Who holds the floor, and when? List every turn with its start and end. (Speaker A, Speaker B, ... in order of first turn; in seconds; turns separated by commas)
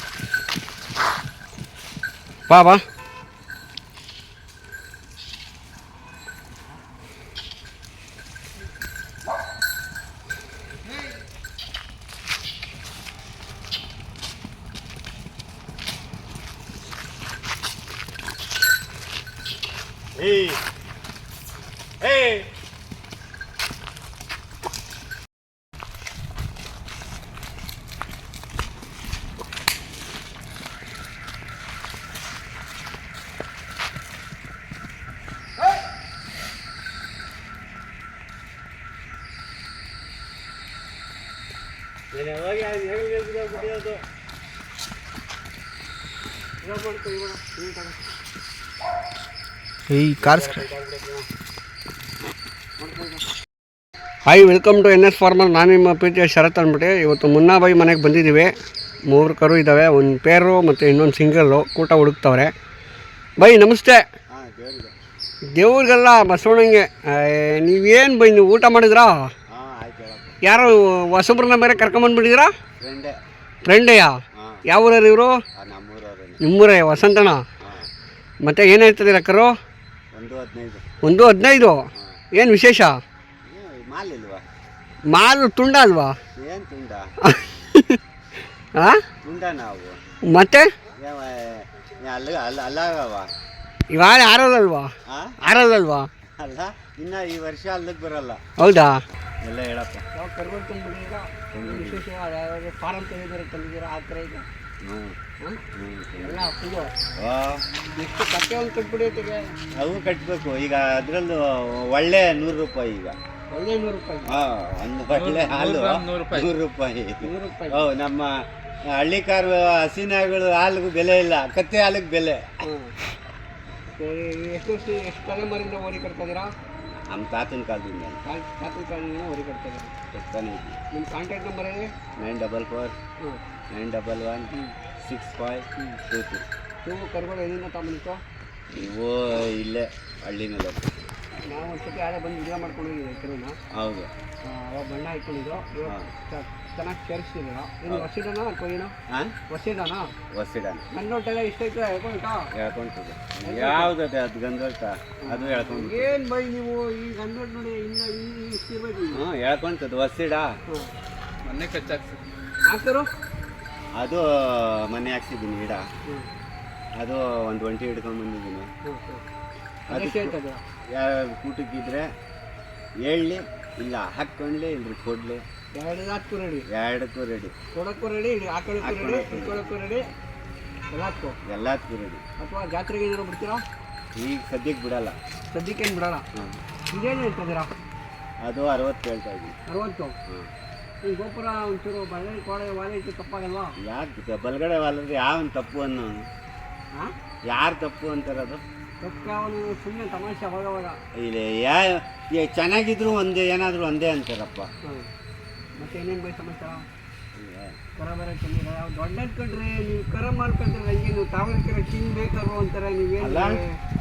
Speaker A: 2.5-2.8, Speaker B: 20.2-20.6, Speaker B: 22.0-22.5, Speaker B: 42.1-44.0, Speaker A: 46.6-48.0, Speaker A: 49.9-50.7, Speaker B: 50.2-51.3, Speaker A: 52.8-53.2, Speaker A: 54.3-58.6, Speaker A: 59.1-62.5, Speaker A: 63.4-64.1, Speaker B: 64.3-65.0, Speaker A: 65.6-69.3, Speaker B: 69.5-70.4, Speaker A: 70.4-72.5, Speaker B: 72.8-73.2, Speaker A: 73.7-75.4, Speaker B: 74.3-74.7, Speaker B: 75.5-76.4, Speaker A: 76.4-77.5, Speaker B: 77.6-77.9, Speaker A: 78.4-79.6, Speaker B: 80.1-80.8, Speaker A: 81.0-83.0, Speaker B: 83.5-84.5, Speaker A: 85.1-86.2, Speaker B: 86.4-87.1, Speaker A: 87.2-88.0, Speaker A: 88.8-89.0, Speaker B: 89.2-90.0, Speaker A: 90.3-90.7, Speaker B: 91.0-93.3, Speaker A: 93.9-94.9, Speaker B: 95.1-95.4, Speaker A: 95.4-96.1, Speaker B: 96.4-98.4, Speaker A: 98.6-99.0, Speaker B: 99.4-100.0, Speaker A: 100.1-104.5, Speaker B: 101.5-102.0, Speaker B: 104.8-105.2, Speaker B: 105.7-106.5, Speaker A: 106.2-106.9, Speaker B: 107.2-107.7, Speaker A: 108.0-109.5, Speaker B: 109.8-113.2, Speaker A: 113.5-114.4, Speaker B: 114.3-122.5, Speaker C: 115.1-116.5, Speaker A: 117.2-117.9, Speaker A: 122.6-123.0, Speaker A: 124.0-126.5, Speaker B: 126.9-128.2, Speaker A: 128.2-129.9, Speaker B: 130.1-130.8, Speaker A: 130.9-131.9, Speaker B: 132.2-132.9, Speaker B: 133.7-134.5, Speaker A: 134.5-134.8, Speaker B: 135.0-136.4, Speaker A: 136.8-138.2, Speaker B: 138.7-140.8, Speaker A: 141.5-143.6, Speaker B: 143.7-144.1, Speaker A: 144.4-148.9, Speaker B: 145.8-146.1, Speaker B: 149.1-149.4, Speaker A: 149.5-150.1, Speaker B: 150.3-150.8, Speaker A: 150.9-152.5, Speaker B: 152.6-156.2, Speaker A: 153.4-153.9, Speaker A: 155.2-159.2, Speaker B: 159.1-160.6, Speaker A: 160.7-160.9, Speaker C: 161.4-162.3, Speaker A: 162.7-163.1, Speaker B: 164.0-165.9, Speaker B: 167.0-168.7, Speaker A: 168.8-169.2, Speaker A: 169.9-170.6, Speaker B: 169.9-170.4, Speaker B: 170.9-172.1, Speaker B: 173.0-175.4, Speaker A: 175.8-176.7, Speaker B: 176.7-177.5, Speaker A: 177.7-180.1, Speaker B: 178.8-179.7, Speaker A: 180.9-181.4, Speaker B: 181.4-182.2, Speaker A: 182.4-183.6, Speaker B: 184.2-185.2, Speaker A: 185.5-186.3, Speaker B: 186.3-186.6, Speaker A: 186.9-187.7, Speaker B: 188.4-189.6, Speaker A: 189.7-190.2, Speaker A: 191.0-193.8, Speaker B: 193.8-196.3, Speaker B: 197.5-198.6, Speaker A: 199.0-201.0, Speaker B: 201.2-204.7, Speaker A: 205.8-206.9, Speaker B: 207.3-207.8, Speaker A: 208.0-213.8, Speaker B: 213.2-213.6